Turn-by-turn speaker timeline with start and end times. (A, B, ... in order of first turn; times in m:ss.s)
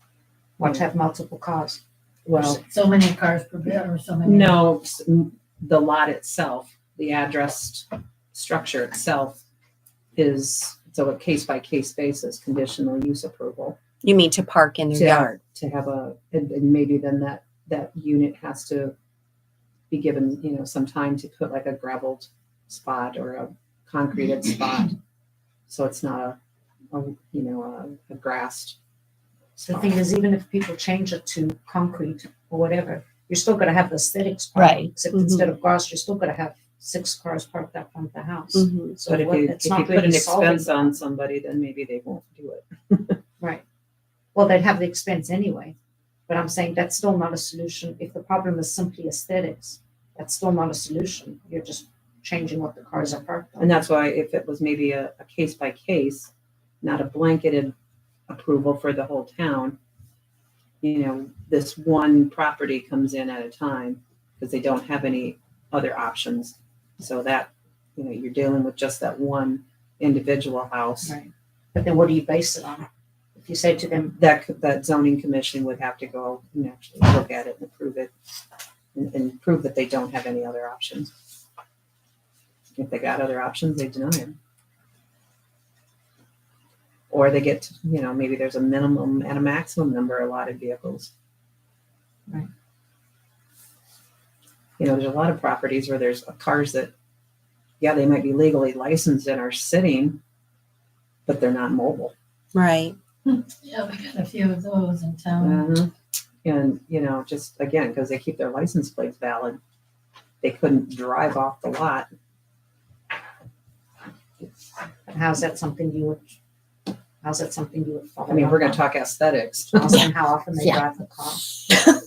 0:00.6-0:02.6 A
0:02.3-0:02.6 B
0:02.7-0:04.6 C
0:04.2-0:09.4 B
0:10.2-0:13.8 B
0:14.0-0:15.4 D
0:14.9-0:18.9 B
0:19.9-0:25.0 B
0:25.7-0:26.4 B
0:26.9-0:28.8 B
0:29.6-0:41.0 A
0:34.6-0:34.9 C
0:35.1-0:35.5 D
0:38.6-0:39.0 D
0:39.1-0:43.2 B
0:44.3-0:45.8 A
0:46.3-0:53.7 A
0:53.6-0:56.3 B
0:56.8-0:57.7 B
0:58.3-0:59.8 B
1:00.8-1:11.2 B
1:11.0-1:14.2 A
1:14.2-1:18.1 B
1:19.0-1:21.1 B
1:22.8-1:24.4 B
1:27.1-1:31.1 B
1:34.8-1:36.9 B
1:37.8-1:40.2 B
1:41.3-1:42.1 B
1:42.6-1:43.0 D
1:43.3-1:45.7 C
1:45.4-1:45.9 B
1:46.4-1:49.6 B
1:50.4-1:52.1 B
1:55.1-1:56.4 A
1:57.2-1:58.8 A
1:58.3-2:00.1 B
1:59.7-2:01.5 A